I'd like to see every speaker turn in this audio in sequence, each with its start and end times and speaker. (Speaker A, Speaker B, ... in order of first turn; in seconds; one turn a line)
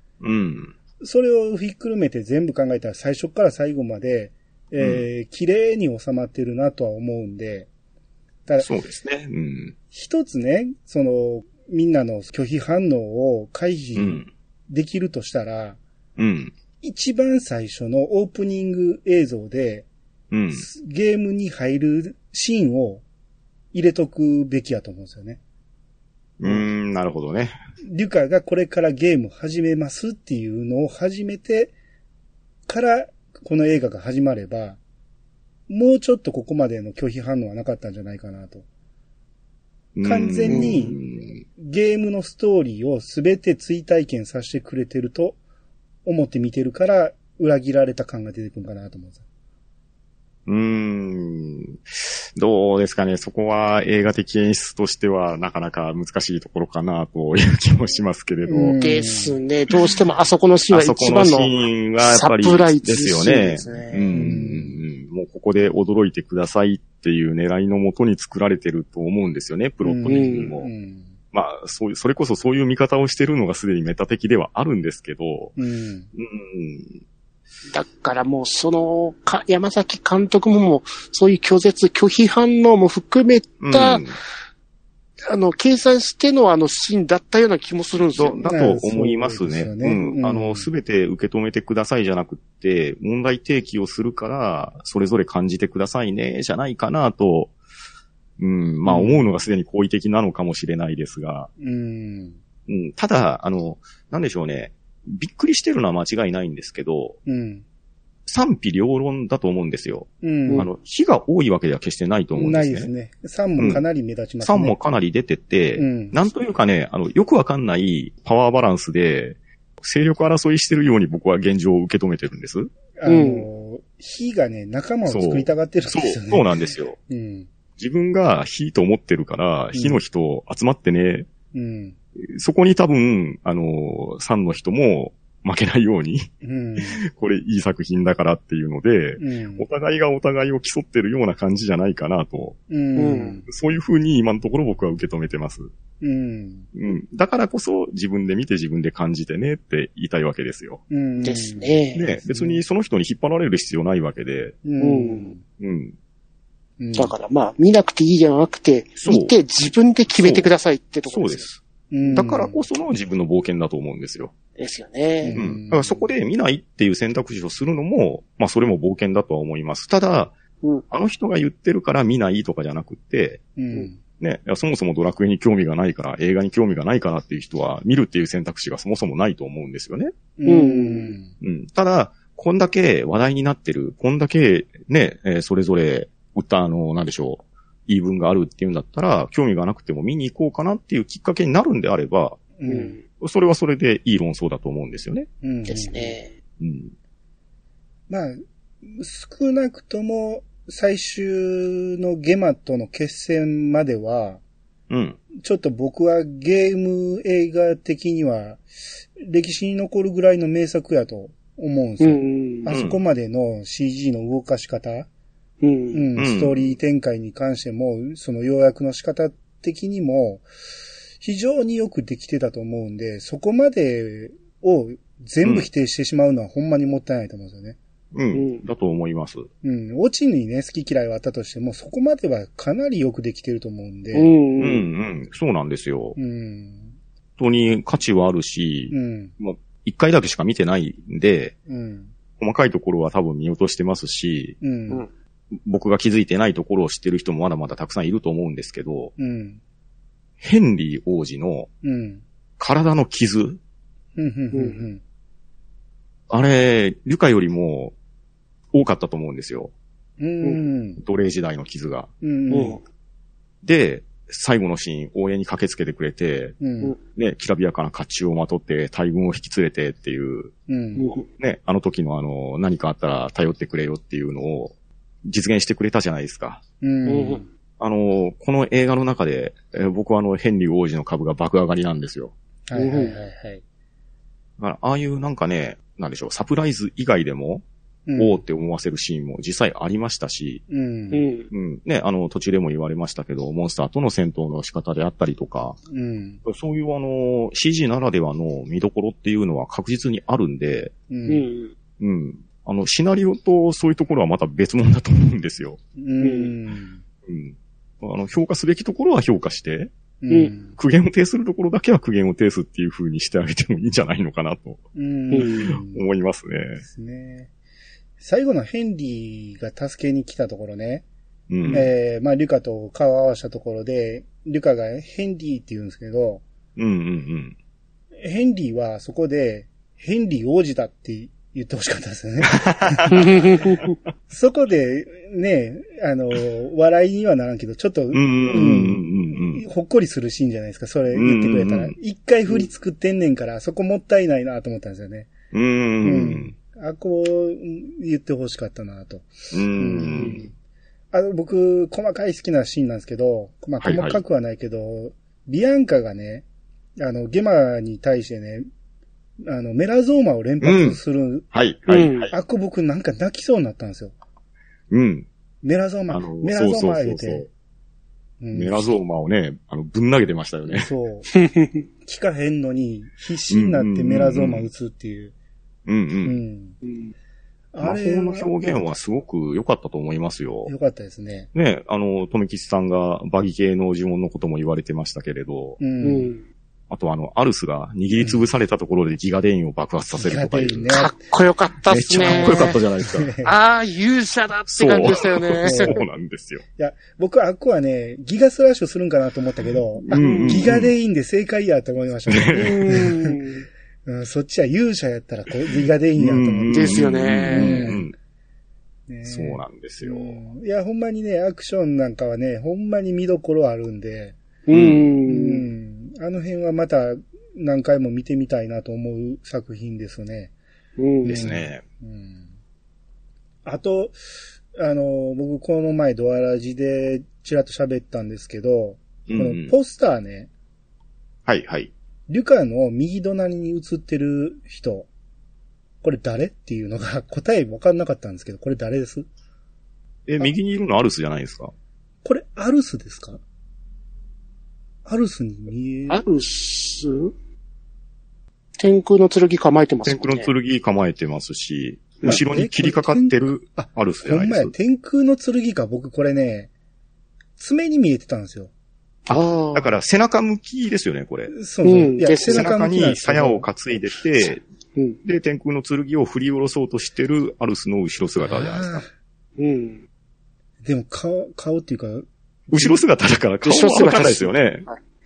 Speaker A: 0.2-0.7
Speaker B: 1.0-7.7
Speaker A: 4.8-5.0
Speaker A: 8.6-9.8
Speaker B: 9.9-15.8
Speaker A: 13.9-14.3
Speaker A: 16.2-16.5
Speaker B: 16.8-19.9
Speaker A: 20.3-20.6
Speaker B: 20.5-23.0
Speaker B: 23.7-25.4
Speaker A: 26.4-27.6
Speaker B: 27.8-31.7
Speaker B: 32.7-34.8
Speaker B: 35.7-38.6
Speaker A: 39.9-41.4
Speaker B: 40.0-41.0
Speaker C: 40.5-40.9
Speaker B: 41.5-45.4
Speaker B: 46.0-49.2
Speaker A: 50.5-58.8
Speaker B: 58.5-59.4
Speaker C: 58.8-64.3
Speaker A: 60.7-70.7
Speaker B: 64.1-64.8
Speaker B: 69.8-71.1
Speaker C: 70.1-70.5
Speaker A: 71.3-75.5
Speaker B: 75.6-76.1
Speaker A: 76.1-77.0
Speaker C: 77.7-84.1
Speaker A: 83.6-84.1
Speaker C: 85.2-88.5
Speaker A: 88.1-97.5
Speaker B: 88.5-90.7
Speaker A: 98.4-101.5
Speaker B: 98.8-99.3
Speaker B: 101.6-102.4
Speaker A: 102.7-107.2
Speaker B: 107.2-107.6
Speaker A: 108.2-112.9
Speaker B: 110.2-110.7
Speaker B: 112.3-114.8
Speaker A: 114.4-122.7
Speaker B: 115.7-116.2
Speaker B: 123.0-127.5
Speaker C: 123.1-123.5
Speaker A: 125.0-127.0
Speaker A: 127.8-131.3
Speaker B: 129.7-130.0
Speaker B: 131.5-131.9
Speaker A: 132.2-142.6
Speaker B: 136.4-137.0
Speaker B: 139.2-139.7
Speaker B: 142.7-143.5
Speaker C: 142.9-143.4
Speaker A: 143.5-145.7
Speaker B: 146.0-146.7
Speaker A: 146.7-150.8
Speaker B: 150.9-152.6
Speaker C: 151.2-152.1
Speaker A: 151.9-154.6
Speaker B: 154.6-155.4
Speaker C: 154.8-155.3
Speaker A: 155.6-155.9
Speaker B: 156.8-157.1
Speaker C: 156.9-161.5
Speaker A: 159.0-159.3
Speaker A: 160.2-160.5
Speaker A: 161.1-161.6
Speaker B: 161.9-162.6
Speaker A: 162.1-164.3
Speaker C: 164.6-165.4
Speaker B: 165.2-166.1
Speaker A: 165.3-170.3
Speaker A: 170.9-173.4
Speaker B: 173.6-174.0
Speaker A: 174.2-180.1
Speaker B: 180.4-181.3
Speaker C: 180.4-181.2
Speaker A: 181.4-192.4
Speaker B: 192.6-193.0
Speaker C: 192.7-193.0
Speaker A: 193.2-195.3
Speaker B: 195.4-196.2
Speaker C: 195.7-196.3
Speaker A: 196.6-196.9
Speaker B: 198.1-204.4
Speaker A: 204.9-205.2
Speaker B: 205.3-208.6
Speaker B: 209.1-215.1
Speaker C: 212.0-212.7
Speaker A: 212.7-213.0
Speaker C: 215.6-216.0
Speaker B: 215.9-220.4
Speaker A: 216.2-216.7
Speaker B: 221.2-227.8
Speaker A: 225.4-225.7
Speaker A: 228.1-229.5
Speaker C: 228.3-228.6
Speaker B: 229.6-234.3
Speaker C: 234.1-234.8
Speaker A: 234.6-236.2
Speaker B: 236.2-236.9
Speaker A: 237.4-241.5
Speaker B: 238.9-239.3
Speaker B: 241.7-242.1
Speaker A: 242.4-244.6
Speaker B: 244.6-245.1
Speaker A: 245.5-249.1
Speaker B: 249.2-249.6
Speaker A: 250.4-251.7
Speaker B: 251.8-252.2
Speaker A: 252.6-253.6
Speaker B: 254.2-255.0
Speaker C: 254.5-254.8
Speaker A: 256.3-257.9
Speaker A: 258.7-259.7
Speaker B: 260.2-261.0
Speaker A: 261.0-262.1
Speaker B: 262.2-262.8
Speaker C: 262.5-262.8
Speaker A: 263.6-266.6
Speaker B: 266.6-266.9
Speaker A: 267.1-270.5
Speaker B: 270.7-271.1
Speaker C: 270.9-271.2
Speaker A: 271.4-274.7
Speaker A: 275.2-276.6
Speaker B: 276.8-277.5
Speaker C: 277.1-277.4
Speaker A: 277.8-282.3
Speaker B: 282.7-283.6
Speaker C: 282.8-283.1
Speaker A: 284.6-287.6
Speaker B: 288.1-288.4
Speaker A: 288.2-290.6
Speaker B: 290.7-291.2
Speaker C: 291.1-291.5
Speaker A: 291.5-295.8
Speaker B: 295.9-296.4
Speaker A: 296.4-300.9
Speaker B: 301.1-301.4
Speaker C: 301.2-301.7
Speaker A: 302.0-305.8
Speaker B: 306.0-307.0
Speaker C: 306.2-306.5
Speaker A: 307.2-309.9
Speaker B: 310.2-310.8
Speaker A: 310.7-314.8
Speaker B: 314.9-316.1
Speaker C: 315.3-315.7
Speaker A: 315.4-316.8
Speaker B: 316.8-317.5
Speaker B: 318.2-321.1
Speaker A: 321.5-321.9
Speaker B: 321.7-326.4
Speaker A: 326.8-327.6
Speaker B: 328.2-333.4
Speaker A: 332.5-333.8
Speaker C: 333.1-333.9
Speaker B: 334.3-345.3
Speaker A: 338.1-339.6
Speaker A: 341.1-341.9
Speaker A: 345.5-346.5
Speaker B: 346.0-350.5
Speaker A: 349.5-350.4
Speaker C: 350.1-350.4
Speaker B: 351.1-356.4
Speaker A: 353.8-354.2
Speaker B: 357.0-358.7
Speaker B: 359.4-361.5
Speaker A: 360.6-361.0
Speaker A: 361.5-362.3
Speaker C: 361.9-362.3
Speaker B: 362.3-364.1
Speaker A: 364.9-365.3
Speaker B: 365.6-367.4
Speaker A: 366.1-367.5
Speaker B: 368.4-368.9
Speaker A: 368.5-370.9
Speaker B: 370.7-371.3
Speaker C: 371.4-371.8
Speaker B: 372.0-375.3
Speaker A: 373.5-374.7
Speaker A: 375.9-376.4
Speaker B: 376.2-376.8
Speaker C: 376.8-377.1
Speaker B: 377.7-378.9
Speaker A: 377.8-380.7
Speaker B: 380.6-381.5
Speaker A: 381.5-385.8
Speaker B: 385.8-386.3
Speaker C: 386.0-386.4
Speaker A: 386.9-390.9
Speaker B: 388.1-388.4
Speaker B: 390.1-391.1
Speaker C: 390.9-392.8
Speaker B: 391.9-393.5
Speaker A: 391.9-393.3
Speaker C: 393.4-395.9
Speaker A: 394.7-396.6
Speaker B: 395.6-396.1
Speaker B: 396.8-403.4
Speaker A: 399.9-400.9
Speaker C: 400.1-400.7
Speaker A: 402.3-402.9
Speaker C: 402.5-403.6
Speaker B: 404.0-408.1
Speaker A: 406.1-408.1
Speaker C: 406.7-407.9
Speaker B: 409.1-414.4
Speaker A: 409.2-410.4
Speaker C: 414.7-415.7
Speaker A: 414.7-415.1
Speaker B: 415.3-420.5
Speaker C: 421.0-421.4
Speaker A: 421.2-421.8
Speaker B: 421.3-422.4
Speaker B: 423.6-424.1
Speaker B: 424.7-430.5
Speaker A: 429.3-429.7
Speaker A: 431.4-431.9
Speaker B: 432.3-435.1
Speaker B: 436.0-439.3
Speaker A: 440.2-441.7
Speaker B: 442.2-443.4
Speaker B: 445.0-446.2
Speaker C: 446.1-447.3
Speaker C: 448.8-450.5
Speaker A: 450.1-454.7
Speaker B: 452.2-456.7
Speaker B: 457.6-458.7
Speaker C: 459.3-459.9
Speaker A: 459.3-461.5
Speaker B: 461.5-463.7
Speaker C: 461.8-462.7
Speaker A: 462.4-464.6
Speaker A: 465.2-469.0
Speaker B: 468.4-469.1
Speaker C: 469.6-470.0
Speaker B: 470.8-473.0
Speaker A: 472.7-474.8
Speaker C: 473.6-475.0